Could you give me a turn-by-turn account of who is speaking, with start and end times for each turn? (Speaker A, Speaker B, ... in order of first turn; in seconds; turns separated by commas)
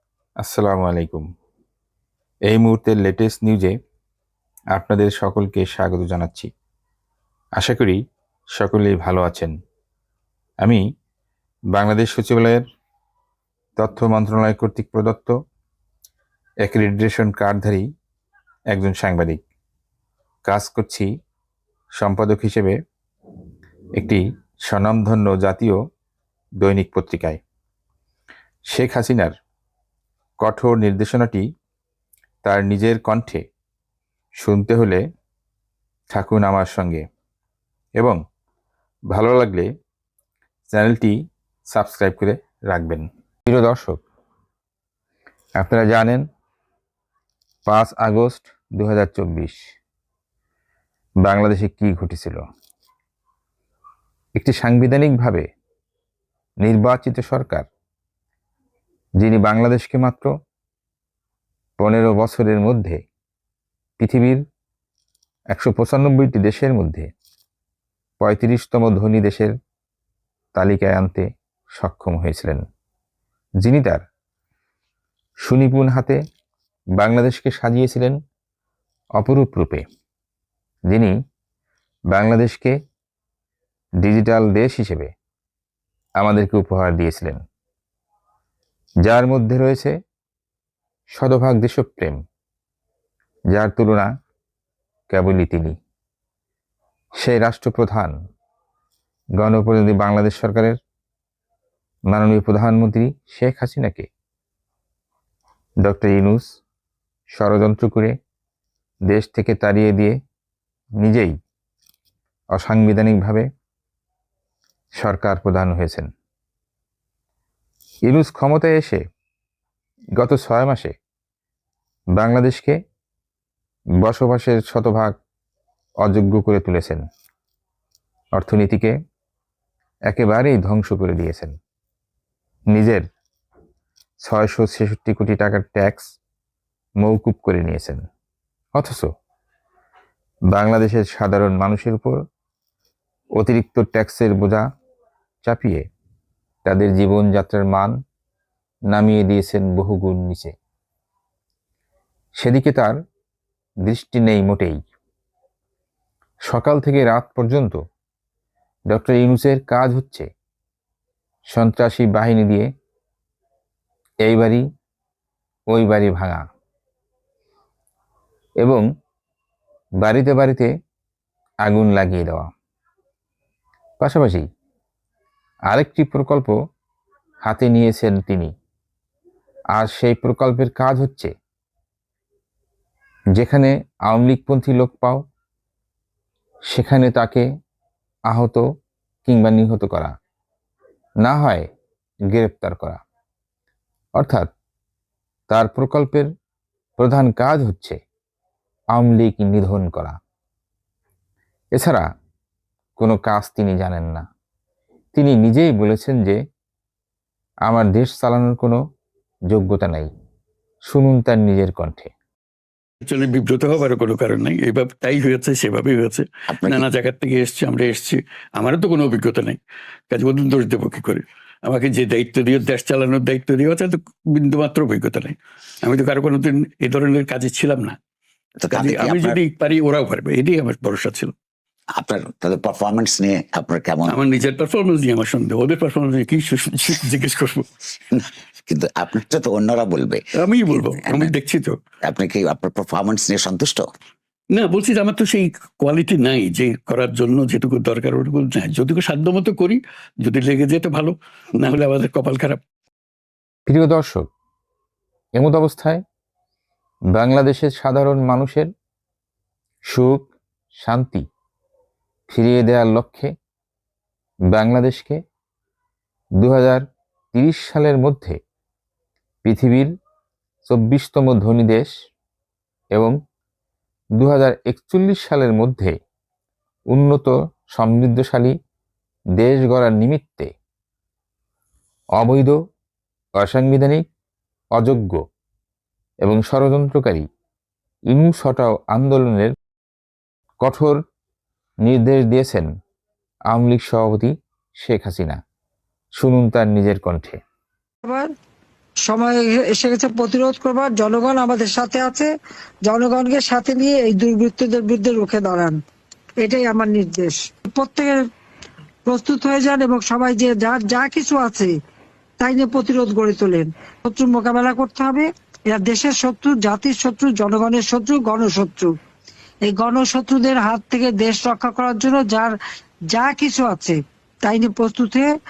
Speaker A: 0.4-1.3, Speaker A: 2.5-3.7, Speaker A: 4.7-6.5, Speaker A: 7.5-8.0, Speaker A: 8.5-9.5, Speaker A: 11.7-12.6, Speaker A: 13.8-15.3, Speaker A: 16.6-17.9, Speaker A: 18.7-19.4, Speaker A: 20.4-21.1, Speaker A: 21.9-22.8, Speaker A: 23.9-25.8, Speaker A: 26.6-27.4, Speaker A: 28.7-29.3, Speaker A: 30.4-31.4, Speaker A: 32.4-33.4, Speaker A: 34.4-35.0, Speaker A: 36.1-37.0, Speaker A: 39.1-39.7, Speaker A: 40.7-41.1, Speaker A: 41.7-44.0, Speaker A: 45.6-46.2, Speaker A: 47.6-49.5, Speaker A: 51.2-52.4, Speaker A: 54.3-55.5, Speaker A: 56.6-57.7, Speaker A: 59.2-60.3, Speaker A: 61.8-63.0, Speaker A: 64.0-64.4, Speaker A: 65.5-67.1, Speaker A: 68.2-69.5, Speaker A: 70.5-72.6, Speaker A: 73.6-74.0, Speaker A: 75.4-76.2, Speaker A: 77.0-78.2, Speaker A: 79.2-79.8, Speaker A: 80.9-81.1, Speaker A: 82.1-82.8, Speaker A: 84.0-85.1, Speaker A: 86.2-87.4, Speaker A: 89.0-90.0, Speaker A: 91.1-92.2, Speaker A: 93.5-94.1, Speaker A: 95.1-95.8, Speaker A: 97.2-98.1, Speaker A: 99.4-100.8, Speaker A: 102.1-104.1, Speaker A: 105.8-106.5, Speaker A: 107.3-108.2, Speaker A: 109.1-110.2, Speaker A: 111.0-111.3, Speaker A: 112.5-113.5, Speaker A: 115.0-116.1, Speaker A: 118.0-119.0, Speaker A: 120.2-120.9, Speaker A: 122.1-122.8, Speaker A: 124.0-125.2, Speaker A: 126.0-127.0, Speaker A: 128.3-128.9, Speaker A: 130.1-131.6, Speaker A: 132.7-133.0, Speaker A: 134.2-136.1, Speaker A: 137.0-138.0, Speaker A: 138.7-139.1, Speaker A: 140.5-142.2, Speaker A: 143.4-144.6, Speaker A: 145.4-145.9, Speaker A: 146.6-147.9, Speaker A: 148.9-150.5, Speaker A: 152.4-152.9, Speaker A: 153.8-154.8, Speaker A: 156.5-157.8, Speaker A: 158.9-160.3, Speaker A: 161.5-162.7, Speaker A: 164.2-164.6, Speaker A: 165.7-166.4, Speaker A: 170.0-170.7, Speaker A: 171.6-172.5, Speaker A: 174.0-174.4, Speaker A: 175.7-176.5, Speaker A: 177.4-178.5, Speaker A: 179.7-181.3, Speaker A: 183.3-185.2, Speaker A: 186.7-187.5, Speaker A: 188.3-188.6, Speaker A: 189.2-190.1, Speaker A: 191.2-191.7, Speaker A: 192.3-193.0, Speaker A: 194.2-194.5, Speaker A: 195.5-196.3, Speaker A: 197.0-198.0, Speaker A: 198.9-200.2, Speaker A: 201.7-202.0, Speaker A: 203.0-204.2, Speaker A: 205.1-206.4, Speaker A: 207.7-208.8, Speaker A: 209.5-210.1, Speaker A: 210.8-212.1, Speaker B: 213.0-219.6, Speaker C: 216.5-216.8, Speaker B: 220.1-228.0, Speaker C: 228.6-229.4, Speaker B: 228.7-231.3, Speaker C: 231.9-234.2, Speaker B: 234.1-237.6, Speaker C: 238.1-241.3, Speaker B: 240.4-241.7, Speaker C: 242.0-243.8, Speaker B: 244.5-252.6, Speaker A: 253.7-254.3, Speaker A: 255.3-256.0, Speaker A: 257.1-258.7, Speaker A: 259.9-261.2, Speaker A: 262.3-263.3, Speaker A: 264.5-265.2, Speaker A: 266.4-268.4, Speaker A: 269.4-269.9, Speaker A: 270.6-271.9, Speaker A: 274.2-276.0, Speaker A: 276.9-278.5, Speaker A: 279.4-280.5, Speaker A: 282.2-282.6, Speaker A: 283.4-284.0, Speaker A: 284.7-285.2, Speaker A: 286.2-287.2, Speaker A: 288.1-289.5, Speaker A: 290.6-291.0, Speaker A: 291.8-292.7, Speaker A: 293.5-295.4, Speaker A: 296.2-297.4, Speaker D: 298.0-298.3, Speaker D: 299.1-302.3, Speaker D: 302.8-305.8, Speaker D: 306.4-308.2, Speaker D: 309.1-311.7, Speaker D: 312.4-318.9, Speaker D: 319.6-322.5, Speaker D: 323.1-325.3